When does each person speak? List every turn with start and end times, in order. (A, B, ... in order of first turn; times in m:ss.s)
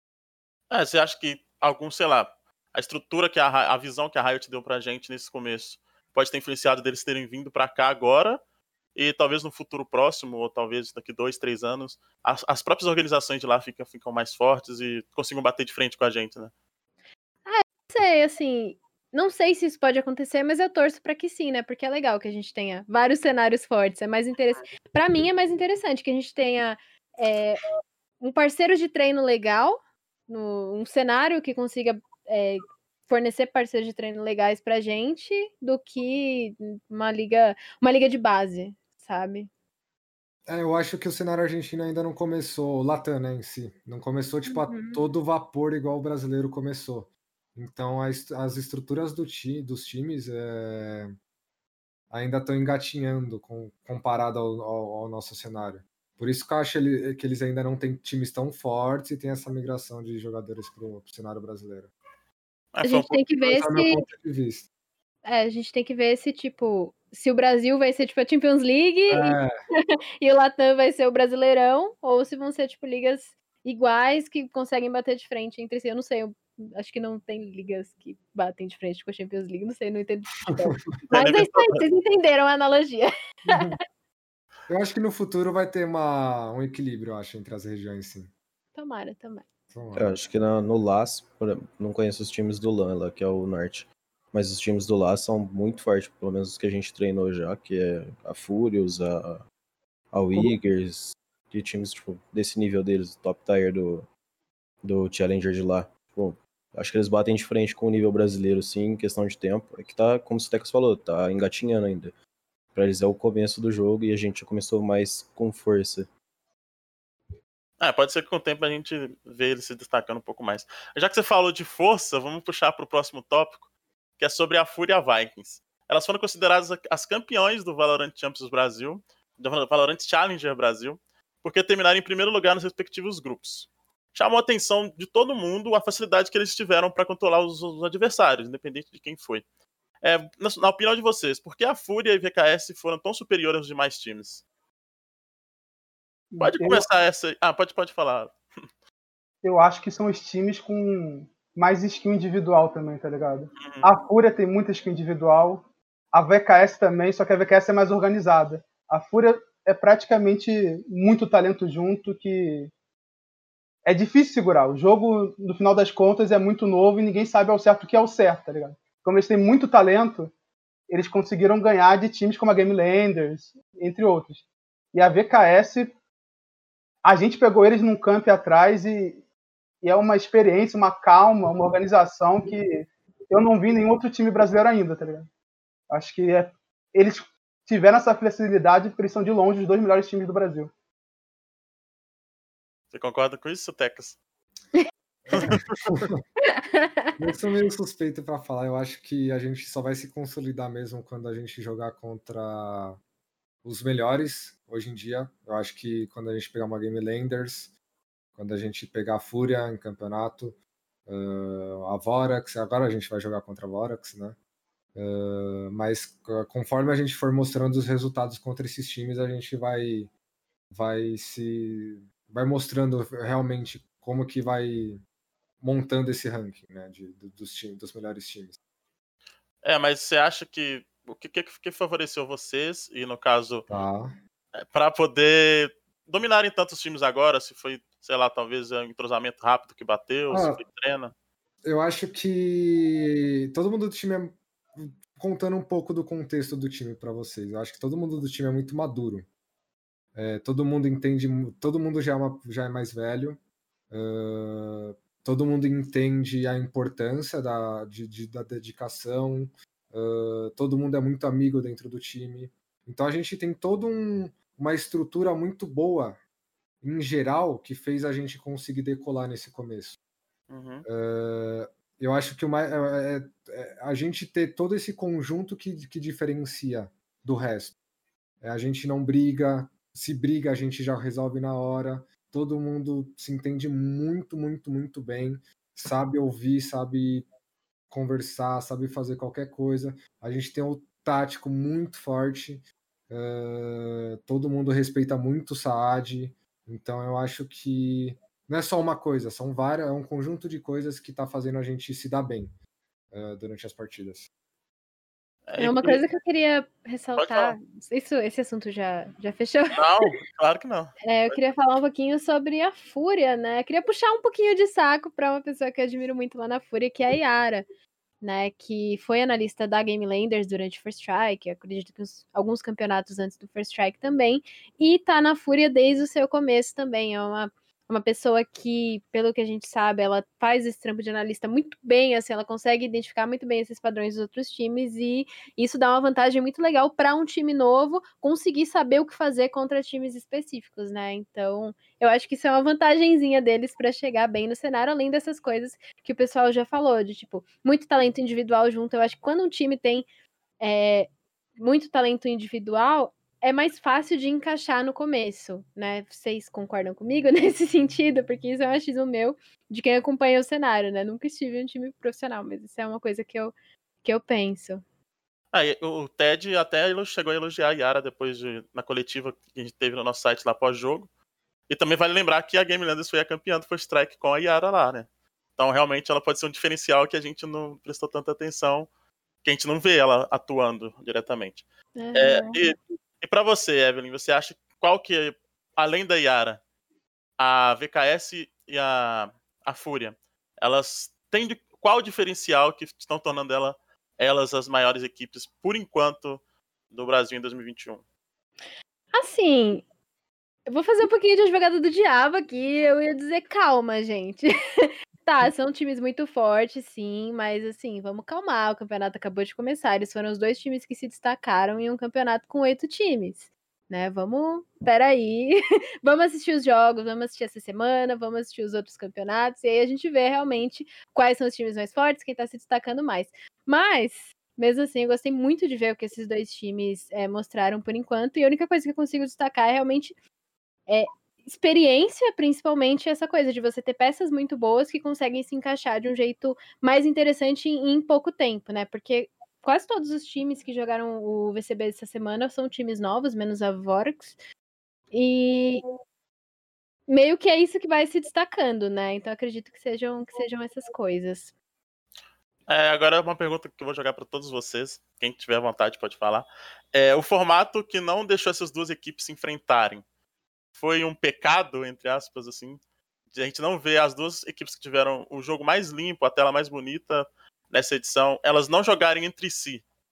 0:00.7-0:08.4 A
0:09.0-0:16.5 A
0:17.5-0:27.6 B
0:28.2-0:39.5 B
0:40.5-0:51.2 C
0:44.5-0:45.0 B
0:52.1-1:01.9 C
1:02.7-1:03.2 A
1:02.8-1:04.1 B
1:03.4-1:04.7 C
1:05.2-1:23.6 B
1:09.1-1:09.6 C
1:21.1-1:21.8 A
1:23.5-1:23.8 C
1:24.7-1:28.3 C
1:28.8-1:29.5 B
1:29.7-1:30.1 C
1:30.0-1:39.5 D
1:40.1-1:44.1 D
1:44.8-1:52.1 D
1:52.7-1:56.1 D
1:57.8-2:03.6 A
2:04.2-2:19.4 A
2:20.0-2:24.4 A
2:26.3-2:26.8 E
2:26.4-2:28.4 A
2:29.4-2:42.7 E
2:33.6-2:33.9 A
2:43.8-2:50.3 E
2:50.9-2:56.0 E
2:57.0-2:59.2 E
2:59.8-3:05.3 E
3:05.9-3:10.7 E
3:12.9-3:14.2 A
3:15.3-3:16.2 C
3:15.3-3:15.8 A
3:16.6-3:17.1 B
3:17.2-3:23.0 C
3:23.6-3:27.7 C
3:28.4-3:34.4 C
3:35.0-3:40.1 C
3:40.7-3:45.0 C
3:45.6-3:48.5 C
3:49.6-3:53.7 A
3:53.7-3:54.2 C
3:54.6-4:01.1 A
4:00.3-4:00.6 C
4:01.6-4:09.3 C
4:10.2-4:26.2 C
4:26.8-4:30.0 C
4:30.5-4:30.8 A
4:30.9-4:37.8 C
4:38.4-4:47.3 C
4:47.9-5:02.6 C
5:03.1-5:04.3 C
5:05.5-5:06.0 A
5:05.6-5:10.2 B
5:07.2-5:07.6 A
5:09.8-5:11.0 A
5:11.0-5:17.6 B
5:18.2-5:50.0 B
5:50.6-5:51.1 B
5:51.6-6:04.8 B
6:05.5-6:11.1 A
6:11.7-6:18.9 A
6:19.4-6:21.6 A
6:22.0-6:22.7 B
6:22.2-6:26.6 A
6:27.4-6:38.0 A
6:39.1-6:39.9 B
6:40.7-7:10.2 B
7:10.9-7:24.4 B
7:25.1-7:25.8 B
7:27.1-7:31.5 B
7:32.7-7:40.0 A
7:40.8-7:42.8 A
7:43.3-7:49.8 A